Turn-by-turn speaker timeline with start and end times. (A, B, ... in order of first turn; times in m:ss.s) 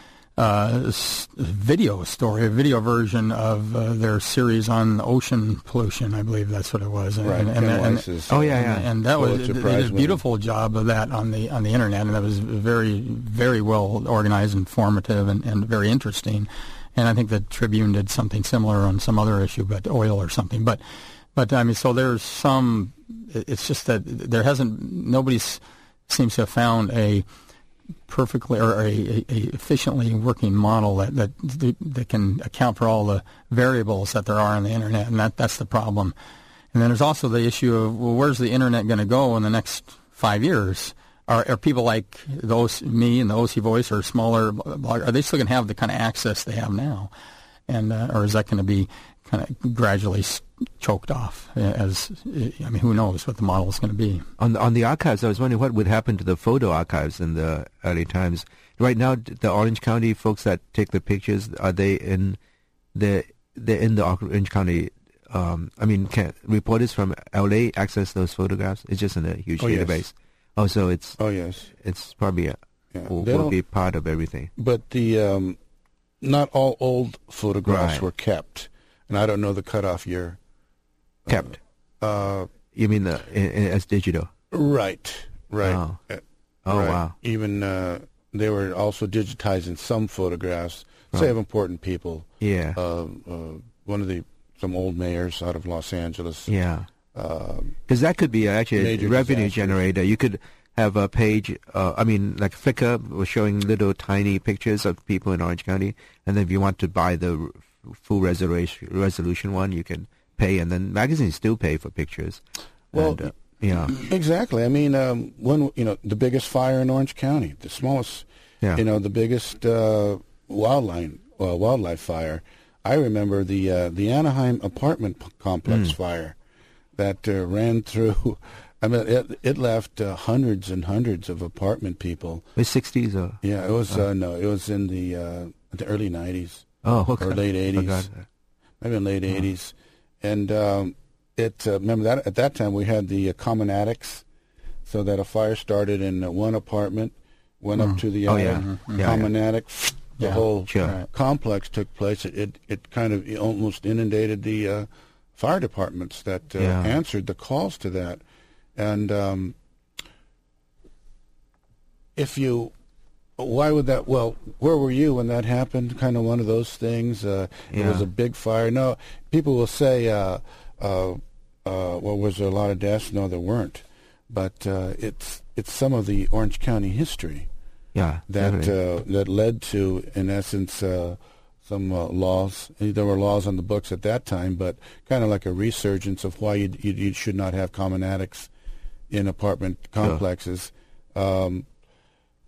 0:00.4-0:20.8 A
0:07.2-0:08.5 B
0:08.3-0:08.9 C
0:09.2-0:10.2 B
0:21.3-0:27.2 A
0:28.1-0:36.1 A
0:36.7-0:47.1 A
0:47.7-0:54.3 A
0:54.4-1:02.4 C
1:02.9-1:11.2 C
1:09.6-1:10.0 B
1:11.2-1:11.7 B
1:11.7-1:14.5 C
1:12.9-1:13.6 B
1:14.6-1:15.6 B
1:16.2-1:20.4 B
1:17.7-1:18.0 C
1:21.3-1:22.5 B
1:22.7-1:24.3 C
1:24.5-1:36.5 B
1:25.6-1:26.0 C
1:26.6-1:27.1 C
1:32.4-1:32.8 C
1:36.5-1:36.9 C
1:37.1-1:37.7 B
1:37.9-1:52.4 C
1:38.7-1:39.9 B
1:52.9-1:54.0 C
1:52.9-1:53.3 B
1:53.9-2:06.4 B
2:07.0-2:12.4 B
2:12.6-2:13.4 C
2:13.4-2:16.6 B
2:16.8-2:18.2 C
2:17.2-2:18.1 B
2:18.8-2:24.2 B
2:24.8-2:38.2 B
2:27.8-2:29.1 A
2:28.3-2:29.3 C
2:30.2-2:31.0 A
2:30.7-2:31.0 C
2:36.6-2:37.0 C
2:38.8-2:39.6 B
2:42.2-2:42.7 B
2:43.4-2:57.5 B
2:47.7-2:48.0 C
2:57.9-2:58.7 C
2:58.3-3:08.5 B
3:09.1-3:11.6 B